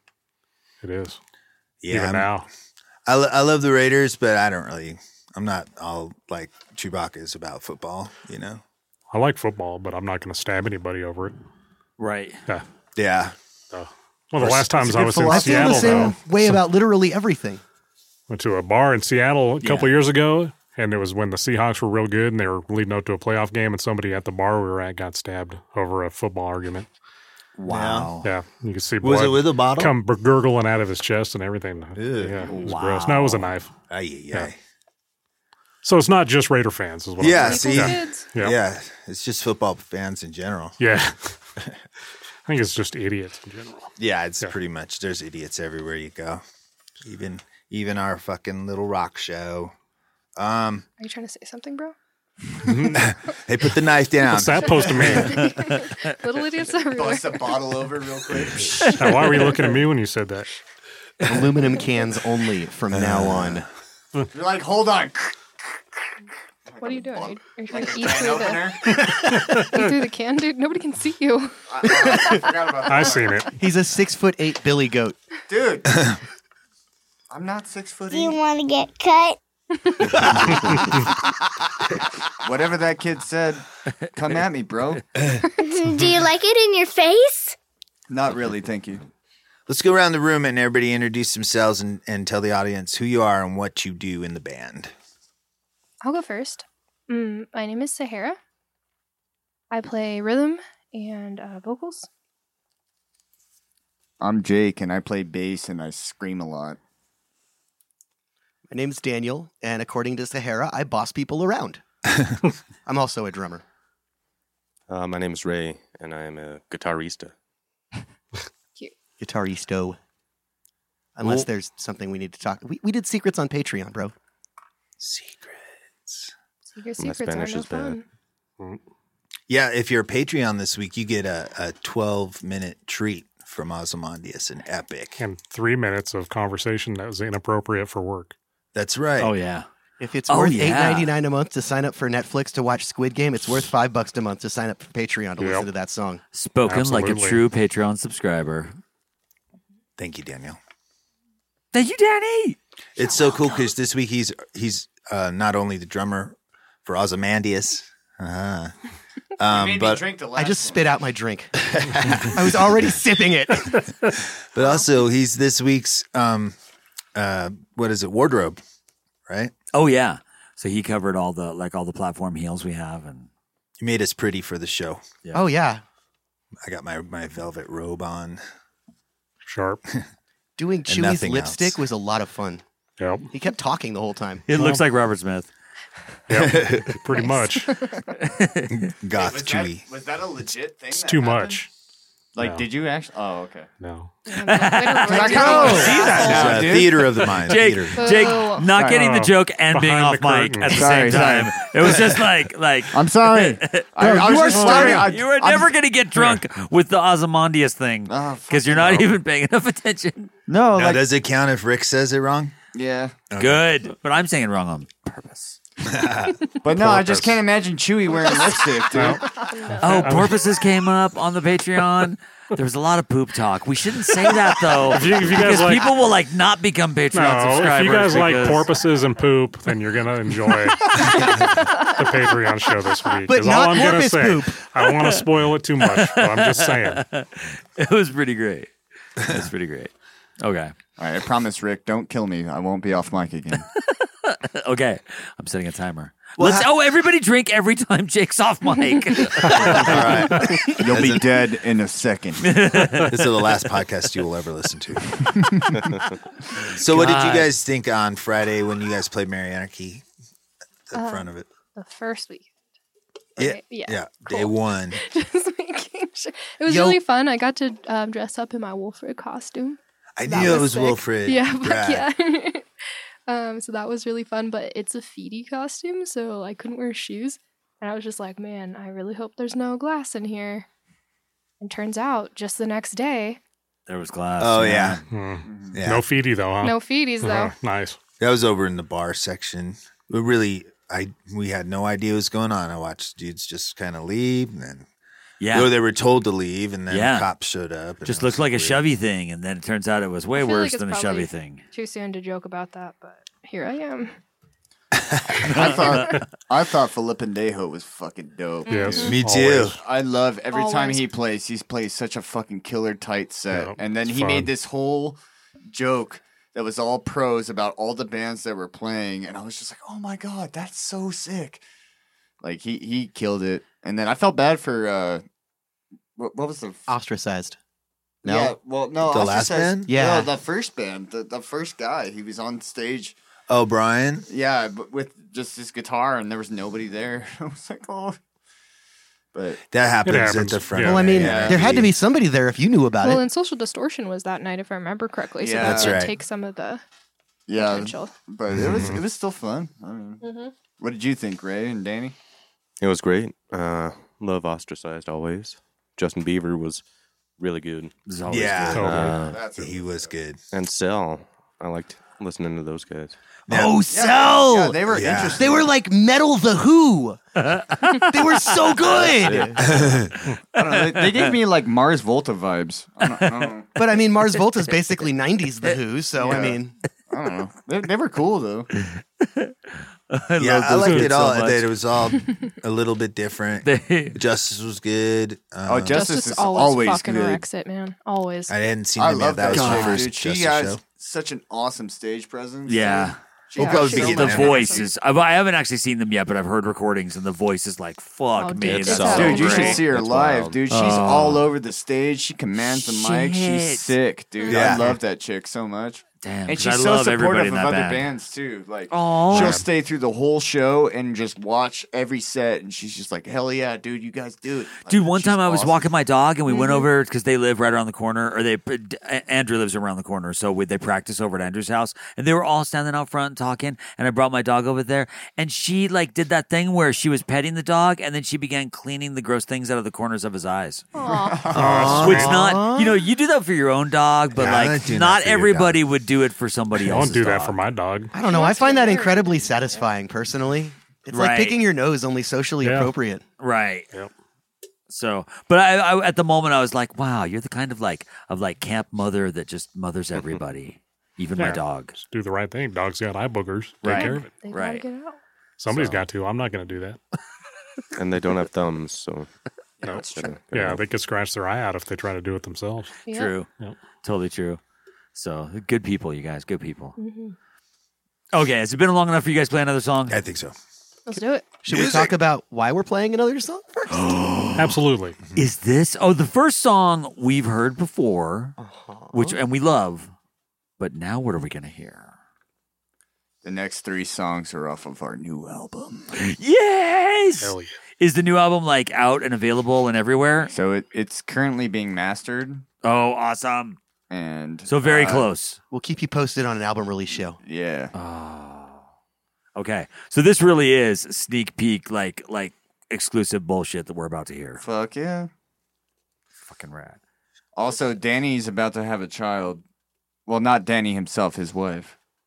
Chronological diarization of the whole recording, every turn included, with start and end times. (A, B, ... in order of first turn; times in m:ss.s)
0:00.8-0:01.2 A
0:01.8-0:02.3 B
0:01.9-0:02.4 A
0:03.0-0:08.6 B
0:09.1-0:11.3 A
0:12.0-0:12.4 C
0:13.0-0:13.3 B
0:13.7-0:16.1 A
0:14.4-0:15.7 B
0:14.9-0:16.1 D
0:15.0-0:17.6 E
0:18.3-0:26.9 A
0:19.6-0:19.9 C
0:27.6-0:28.3 C
0:27.7-0:28.1 B
0:28.2-0:33.7 A
0:29.0-0:29.9 B
0:32.0-0:32.5 B
0:32.4-0:32.8 D
0:32.6-0:33.5 C
0:33.9-0:34.6 B
0:35.8-0:38.6 A
0:37.2-0:40.8 B
0:37.3-0:38.2 F
0:40.8-0:41.3 A
0:42.5-0:44.5 A
0:44.0-0:46.4 B
0:47.0-0:49.7 B
0:50.4-0:50.8 B
0:51.0-0:51.9 F
0:52.6-0:53.1 A
0:52.9-0:55.2 B
0:54.2-0:55.5 A
0:55.0-0:57.6 F
0:56.9-0:58.9 D
0:58.8-1:00.5 A
0:58.9-0:59.6 C
1:01.2-1:03.6 E
1:02.9-1:03.6 B
1:04.3-1:05.3 D
1:06.7-1:09.5 D
1:06.8-1:12.4 F
1:09.3-1:09.8 A
1:11.7-1:13.5 D
1:12.1-1:12.5 E
1:12.8-1:13.5 A
1:13.6-1:15.2 E
1:15.5-1:16.1 D
1:17.3-1:18.4 D
1:18.1-1:19.4 G
1:22.4-1:23.6 D
1:24.1-1:25.0 D
1:25.6-1:27.6 G
1:28.1-1:29.0 D
1:29.7-1:34.9 B
1:36.0-1:38.4 F
1:39.7-1:42.1 F
1:44.2-1:46.8 D
1:48.7-1:51.8 E
1:52.8-1:53.6 E
1:54.9-1:57.3 H
1:59.2-2:00.0 E
2:01.1-2:04.1 E
2:01.2-2:01.5 B
2:05.0-2:06.3 B
2:06.7-2:08.0 F
2:07.0-2:08.0 H
2:09.5-2:15.2 B
2:15.2-2:18.3 A
2:18.7-2:19.3 B
2:19.2-2:19.6 C
2:20.0-2:26.2 E
2:20.3-2:21.1 C
2:25.4-2:25.7 A
2:26.3-2:28.7 C
2:26.6-2:27.4 A
2:30.0-2:30.6 B
2:31.7-2:32.6 C
2:33.0-2:38.7 B
2:39.4-2:40.1 B
2:39.4-2:40.9 D
2:40.4-2:41.5 E
2:41.6-2:42.7 B
2:42.3-2:43.8 E
2:44.4-2:46.6 B
2:47.1-2:48.6 B
2:49.3-2:49.5 B
2:49.7-2:53.3 C
2:53.8-2:55.0 B
2:55.3-2:55.8 E
2:56.6-2:58.4 B
2:59.4-2:59.8 A
3:00.6-3:02.6 E
3:00.9-3:01.8 B
3:03.0-3:03.3 A
3:03.3-3:04.4 E
3:04.5-3:05.5 C
3:04.5-3:04.8 A
3:06.3-3:07.8 A
3:06.3-3:07.0 B
3:07.3-3:07.9 F
3:08.2-3:08.8 C
3:08.7-3:09.8 B
3:09.1-3:11.7 D
3:10.9-3:11.7 A
3:12.3-3:13.7 D
3:12.4-3:12.7 A
3:13.8-3:14.1 A
3:14.3-3:16.7 F
3:14.3-3:31.0 C
3:15.0-3:17.2 D
3:16.1-3:18.2 B
3:17.9-3:18.7 F
3:18.7-3:19.0 D
3:18.9-3:21.2 A
3:20.7-3:22.2 D
3:22.9-3:25.7 D
3:24.0-3:25.0 E
3:28.1-3:29.1 D
3:30.5-3:31.0 D
3:30.7-3:32.5 B
3:32.7-3:33.2 D
3:33.3-3:33.6 B
3:33.4-3:35.1 C
3:35.1-3:35.6 D
3:35.8-3:36.4 B
3:36.6-3:39.3 D
3:38.9-3:39.2 A
3:39.4-3:40.1 F
3:39.8-3:40.4 A
3:39.8-3:48.7 C
3:44.8-3:45.9 A
3:47.1-3:57.0 A
3:53.3-3:54.6 E
3:55.0-3:55.2 C
3:55.8-4:00.7 C
4:01.0-4:03.7 D
4:03.8-4:11.2 C
4:06.4-4:06.7 B
4:09.6-4:11.4 B
4:10.7-4:12.6 D
4:12.4-4:13.8 C
4:13.1-4:15.8 B
4:15.2-4:15.7 C
4:16.5-4:17.5 C
4:16.7-4:20.0 B
4:20.9-4:21.5 B
4:20.9-4:22.5 F
4:23.4-4:25.0 B
4:23.4-4:32.7 F
4:26.6-4:27.0 E
4:30.2-4:32.0 B
4:30.3-4:30.6 E
4:33.3-4:40.7 F
4:41.6-4:43.4 F
4:43.9-4:45.0 C
4:44.4-4:45.0 B
4:45.1-4:48.0 A
4:45.4-4:45.8 D
4:45.7-4:46.1 B
4:46.6-4:47.5 F
4:48.2-4:54.9 B
4:55.4-4:55.7 C
4:55.5-4:58.8 B
4:56.9-4:57.3 C
4:58.0-5:01.6 C
5:00.4-5:04.2 F
5:05.5-5:09.2 D
5:05.5-5:06.2 C
5:08.7-5:09.1 F
5:08.7-5:09.8 A
5:09.0-5:09.8 B
5:09.8-5:21.6 D
5:10.5-5:11.0 F
5:13.5-5:14.5 A
5:22.4-5:25.2 D
5:26.2-5:26.8 D
5:26.9-5:27.6 E
5:28.2-5:28.6 E
5:28.2-5:33.2 D
5:29.1-5:29.9 B
5:29.9-5:30.3 E
5:33.5-5:34.3 B
5:34.3-5:38.2 D
5:39.3-5:39.6 D
5:39.7-5:41.9 B
5:40.0-5:41.1 A
5:40.8-5:43.2 E
5:41.1-5:41.8 D
5:43.0-5:46.8 F
5:45.4-5:46.0 D
5:45.6-5:46.2 B
5:47.5-5:50.2 D
5:47.5-5:48.1 F
5:48.6-5:49.0 A
5:50.2-5:50.5 F
5:50.8-5:52.1 D
5:52.8-5:56.8 H
5:57.4-5:57.9 H
5:58.1-5:59.1 C
5:58.3-6:00.4 B
5:58.7-5:59.2 A
5:58.8-5:59.4 H
5:59.1-6:00.1 D
6:00.5-6:03.2 H
6:03.5-6:03.8 B
6:03.5-6:04.7 E
6:03.5-6:04.4 C
6:03.9-6:05.7 D
6:04.9-6:05.5 B
6:05.3-6:07.2 E
6:07.4-6:09.7 C
6:07.7-6:09.5 E
6:09.0-6:09.7 D
6:09.6-6:10.1 B
6:10.5-6:13.7 D
6:10.6-6:11.3 C
6:13.1-6:13.5 C
6:13.8-6:16.7 E
6:16.2-6:18.7 D
6:18.8-6:19.5 C
6:20.1-6:21.7 C
6:20.4-6:26.1 B
6:20.8-6:21.1 A
6:23.6-6:24.2 C
6:25.6-6:27.4 D
6:25.9-6:28.5 F
6:28.5-6:30.8 B
6:29.0-6:34.9 D
6:29.5-6:30.1 C
6:32.6-6:39.8 C
6:33.6-6:34.6 B
6:33.6-6:34.8 F
6:38.4-6:39.8 F
6:38.7-6:39.6 B
6:39.2-6:55.9 D
6:39.6-6:40.6 H
6:40.7-6:41.5 C
6:42.6-6:44.0 C
6:44.5-6:45.0 B
6:46.2-6:48.1 C
6:48.9-6:49.6 C
6:49.3-6:49.7 A
6:54.9-7:10.9 C
6:56.5-6:56.9 F
7:10.9-7:11.4 F
7:11.0-7:12.1 D
7:11.5-7:12.4 B
7:11.5-7:12.4 A
7:11.9-7:17.6 C
7:12.0-7:13.0 E
7:14.3-7:15.8 B
7:16.8-7:18.1 A
7:18.1-7:23.2 E
7:18.2-7:19.8 F
7:21.1-7:21.6 C
7:22.6-7:22.9 A
7:23.4-7:23.9 C
7:24.9-7:31.9 C
7:31.4-7:34.3 A
7:33.8-7:34.8 C
7:33.9-7:35.2 F
7:35.6-7:37.0 A
7:35.7-7:36.0 C
7:38.0-7:39.3 H
7:39.8-7:40.8 H
7:39.9-7:42.9 A
7:43.0-7:43.3 F
7:43.1-7:43.5 C
7:44.0-7:44.6 C
7:45.1-7:47.0 C
7:47.0-7:47.4 F
7:48.3-7:50.2 C
7:50.1-7:50.5 B
7:51.1-7:51.4 F
7:51.6-7:54.5 E
7:51.7-7:52.2 B
7:53.9-7:54.6 C
7:54.6-7:55.2 A
7:55.3-7:58.5 C
7:58.6-7:59.4 E
7:59.1-8:00.1 C
8:00.8-8:02.1 C
8:03.4-8:06.2 D
8:06.2-8:10.5 C
8:07.4-8:07.8 A
8:10.5-8:12.6 D
8:12.8-8:13.8 C
8:14.1-8:15.3 D
8:14.7-8:15.6 C
8:15.7-8:17.4 E
8:17.4-8:17.9 D
8:17.9-8:18.8 C
8:19.6-8:24.6 C
8:24.6-8:25.3 D
8:26.4-8:27.0 C
8:27.5-8:29.6 D
8:30.2-8:32.0 D